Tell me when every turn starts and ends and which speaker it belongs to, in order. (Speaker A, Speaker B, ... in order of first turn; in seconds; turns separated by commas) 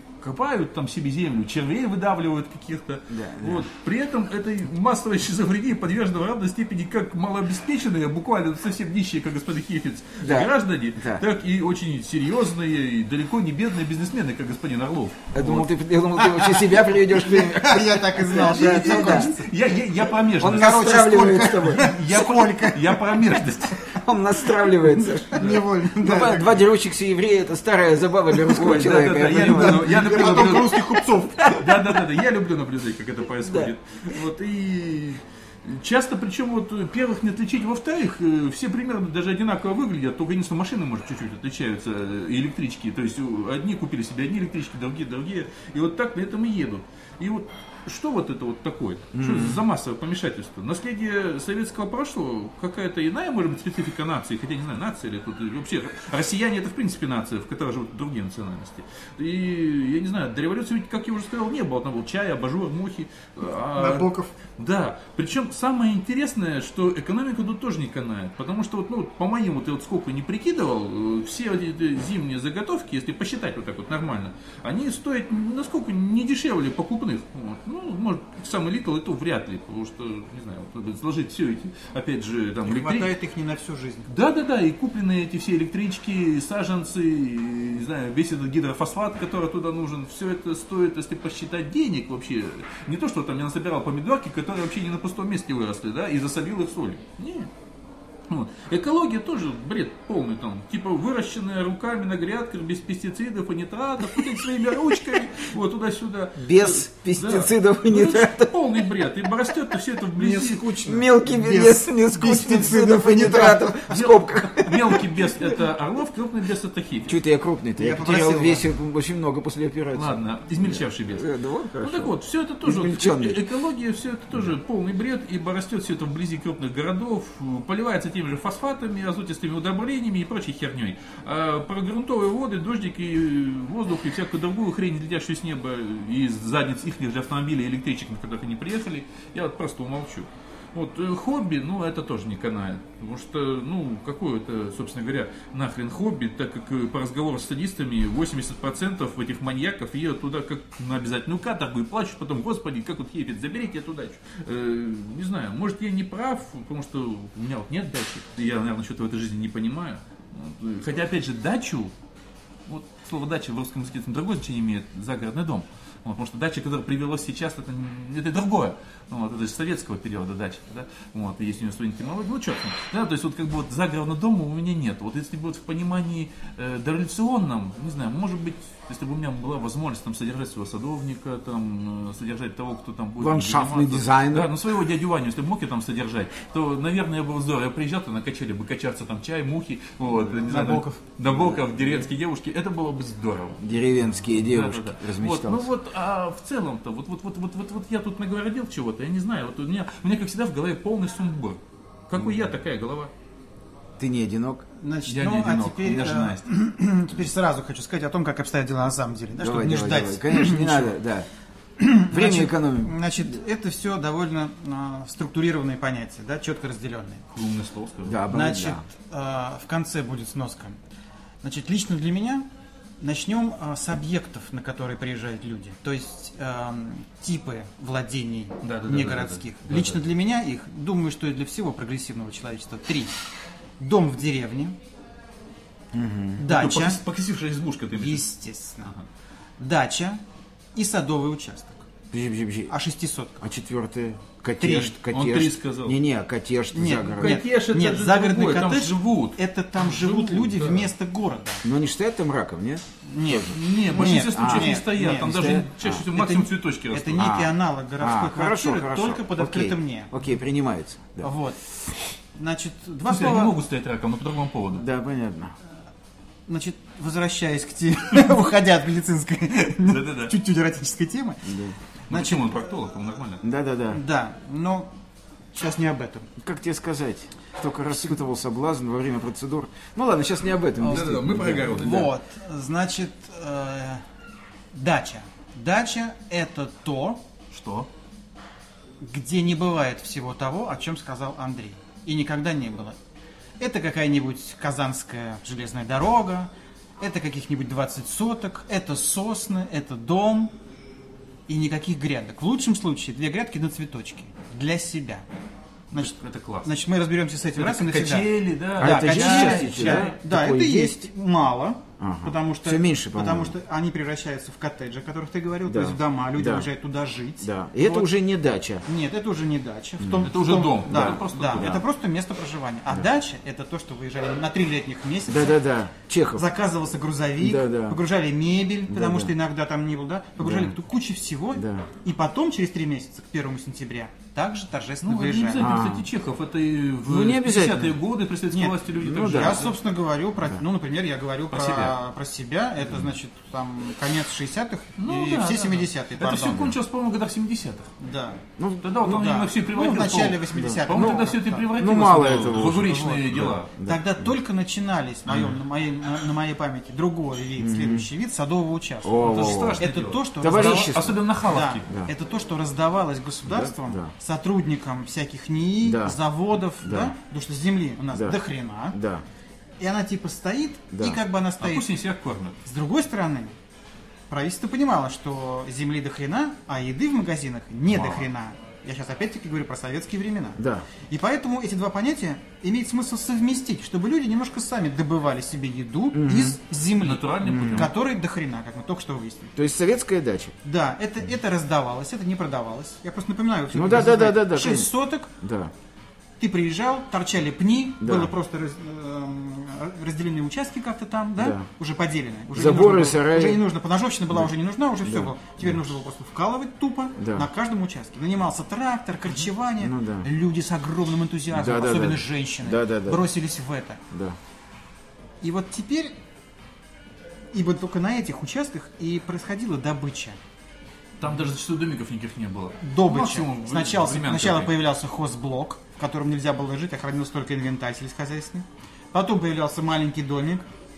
Speaker A: 0.2-15.7, Speaker B: 3.1-3.7, Speaker B: 10.2-11.2, Speaker B: 15.3-19.3, Speaker C: 16.2-19.5, Speaker A: 18.3-21.0, Speaker B: 20.4-21.9, Speaker C: 20.4-23.2, Speaker A: 21.6-23.9, Speaker B: 23.8-30.6, Speaker C: 25.2-26.6, Speaker A: 25.4-25.6, Speaker A: 28.4-83.1, Speaker C: 29.4-31.6, Speaker B: 31.2-31.8, Speaker B: 33.4-33.7, Speaker B: 49.1-49.6, Speaker C: 63.8-64.3, Speaker C: 82.6-84.1, Speaker A: 84.1-97.5, Speaker A: 98.3-110.7, Speaker B: 106.4-108.8, Speaker C: 110.2-113.9, Speaker B: 110.7-115.2, Speaker A: 113.3-117.2, Speaker B: 117.0-122.1, Speaker C: 117.8-118.6, Speaker A: 119.9-121.3, Speaker A: 121.8-161.9, Speaker B: 122.6-123.4, Speaker A: 162.7-193.6, Speaker B: 183.2-184.5, Speaker C: 190.4-191.0, Speaker B: 193.6-195.7, Speaker A: 194.2-203.1, Speaker B: 204.0-204.7, Speaker C: 204.8-210.9, Speaker A: 205.1-206.4, Speaker B: 209.4-211.3, Speaker C: 211.8-217.2, Speaker B: 212.1-213.2, Speaker A: 217.3-218.2, Speaker B: 218.1-218.8, Speaker C: 218.3-220.8, Speaker C: 221.4-222.5, Speaker C: 223.0-233.1, Speaker A: 228.6-230.0, Speaker C: 233.8-234.8, Speaker B: 235.9-236.4, Speaker C: 236.4-237.0, Speaker A: 236.4-238.3, Speaker C: 237.9-238.9, Speaker C: 239.6-240.2, Speaker C: 240.7-241.9, Speaker B: 242.1-242.7, Speaker C: 242.7-243.4, Speaker B: 243.4-247.4, Speaker C: 244.6-244.9, Speaker A: 245.1-246.0, Speaker C: 246.7-251.6, Speaker A: 247.1-250.9, Speaker B: 251.6-256.1, Speaker C: 253.0-260.1, Speaker A: 253.5-257.4, Speaker B: 257.2-261.3, Speaker C: 261.2-261.6, Speaker C: 262.3-263.5, Speaker A: 263.1-264.9, Speaker B: 264.7-265.6, Speaker C: 266.5-272.6, Speaker A: 269.8-270.3, Speaker B: 271.4-271.8, Speaker A: 272.1-273.4, Speaker B: 273.4-274.0, Speaker C: 273.9-274.9, Speaker C: 275.5-276.3, Speaker B: 276.4-281.9, Speaker A: 280.8-282.1, Speaker C: 280.8-284.0, Speaker C: 284.7-287.2, Speaker A: 287.5-287.9, Speaker C: 289.0-293.0, Speaker C: 293.6-300.5, Speaker C: 301.5-305.2, Speaker C: 305.9-318.1, Speaker A: 305.9-306.7, Speaker A: 307.6-310.2, Speaker B: 308.8-311.1, Speaker B: 312.0-313.5, Speaker B: 315.7-316.7, Speaker B: 317.4-318.9, Speaker C: 318.8-325.6, Speaker B: 320.0-320.3, Speaker A: 320.2-321.8, Speaker B: 320.9-321.8, Speaker B: 325.3-326.4, Speaker C: 326.3-335.8, Speaker B: 327.4-328.0, Speaker B: 328.9-329.3, Speaker B: 330.4-330.7, Speaker B: 331.6-331.9, Speaker A: 335.0-339.8, Speaker B: 335.6-336.1, Speaker B: 337.1-337.9, Speaker C: 338.5-346.8, Speaker B: 339.0-339.7, Speaker A: 341.5-341.9, Speaker A: 345.0-347.9, Speaker C: 348.0-348.4, Speaker B: 348.6-348.9, Speaker A: 348.8-353.7, Speaker C: 349.0-351.7, Speaker B: 350.6-354.2, Speaker C: 352.6-353.2, Speaker C: 353.8-369.0, Speaker B: 357.6-358.1, Speaker B: 359.0-359.9, Speaker A: 359.2-361.9, Speaker B: 360.4-361.2, Speaker B: 363.4-364.1, Speaker B: 365.8-366.2, Speaker B: 366.8-367.1, Speaker B: 368.9-369.2, Speaker C: 369.8-371.9, Speaker B: 370.9-371.2, Speaker A: 371.6-372.6, Speaker C: 372.6-373.5, Speaker C: 374.3-389.5, Speaker B: 380.6-380.9, Speaker B: 386.1-386.6, Speaker A: 387.0-387.9, Speaker B: 387.4-387.9, Speaker B: 389.5-390.5, Speaker C: 390.6-395.3, Speaker B: 393.7-395.7, Speaker C: 396.4-414.0, Speaker B: 398.0-398.3, Speaker B: 401.4-401.6, Speaker B: 402.5-403.6, Speaker B: 405.0-405.7, Speaker B: 407.2-407.5, Speaker B: 409.8-410.3, Speaker B: 411.5-413.2, Speaker B: 414.1-414.4, Speaker C: 415.4-416.1, Speaker C: 417.5-420.4, Speaker A: 421.2-424.7, Speaker C: 422.8-430.6